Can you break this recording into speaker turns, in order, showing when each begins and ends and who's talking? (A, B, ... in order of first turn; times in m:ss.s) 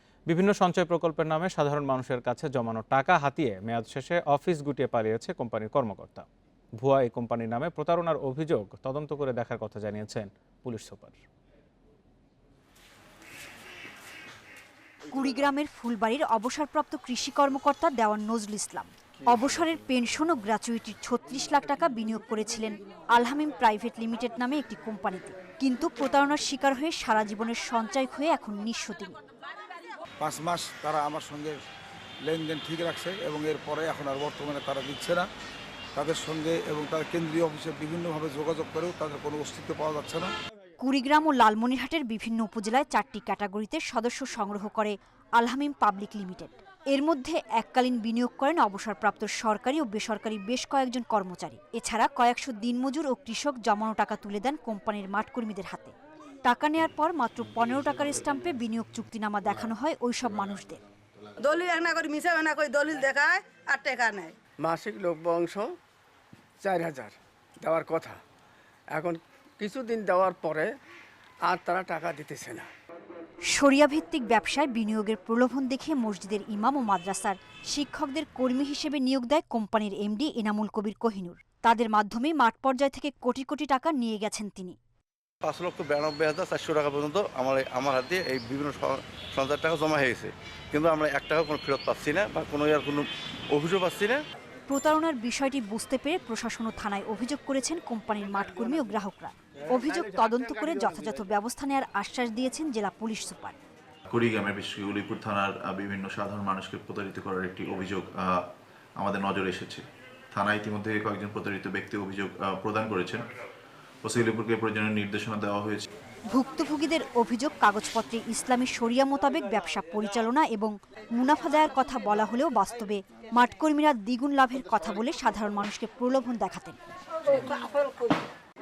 0:00.3-0:06.3 A
0:06.8-0:11.2 A
0:15.0-0:29.2 B
0:30.2-0:31.6 C
0:32.2-0:35.3 C
0:35.9-0:40.3 C
0:40.8-0:55.9 B
0:56.4-1:00.8 B
1:01.4-1:04.4 D
1:04.6-1:05.7 E
1:06.6-1:08.2 E
1:08.9-1:10.7 E
1:11.5-1:12.7 E
1:13.5-1:24.8 B
1:25.4-1:34.2 F
1:34.7-1:43.6 B
1:44.1-1:48.5 G
1:49.0-1:53.2 G
1:54.0-1:55.9 G
1:56.3-2:06.8 B
2:07.3-2:08.1 D